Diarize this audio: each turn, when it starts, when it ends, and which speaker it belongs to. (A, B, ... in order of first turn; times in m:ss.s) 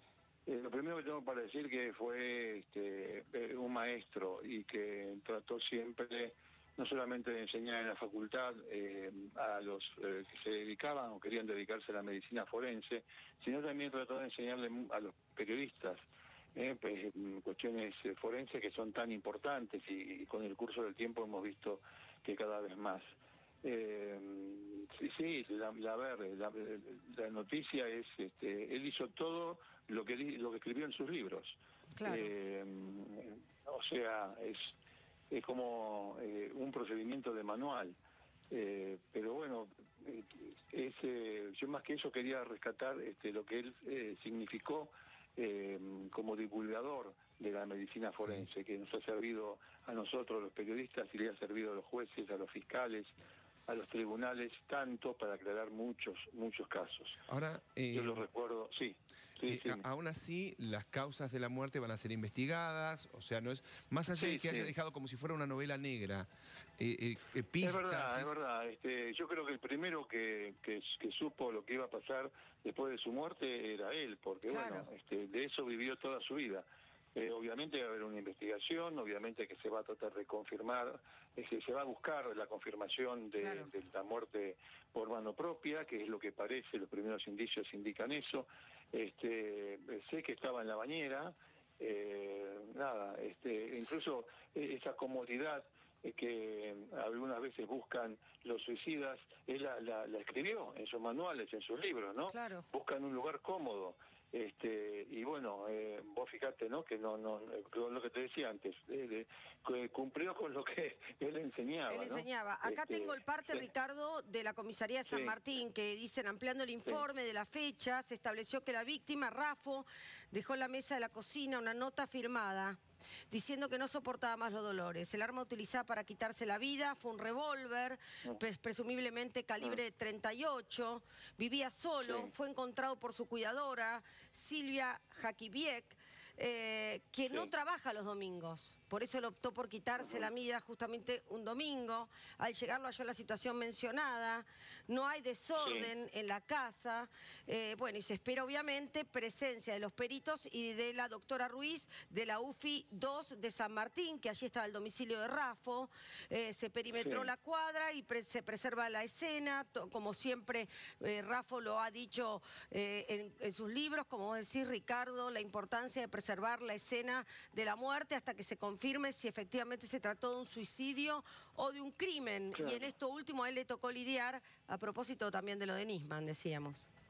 0:00.4-0:16.0 A
0:16.5-0:23.0 A
0:23.6-0:34.7 A
0:32.0-0:32.3 B
0:35.3-0:38.0 A
0:38.5-0:53.1 A
0:53.7-0:57.2 A
0:57.2-0:58.2 C
0:57.9-0:59.8 A
0:59.4-1:08.3 C
1:04.1-1:04.7 A
1:07.6-1:53.6 A
1:14.5-1:14.9 B
1:23.4-1:23.7 B
1:42.3-1:42.6 B
1:51.9-2:02.8 B
1:55.1-1:55.4 A
2:03.3-2:56.9 B
2:12.0-2:12.3 A
2:20.0-2:20.3 A
2:25.6-2:25.9 A
2:37.0-2:37.3 A
2:52.6-2:52.9 A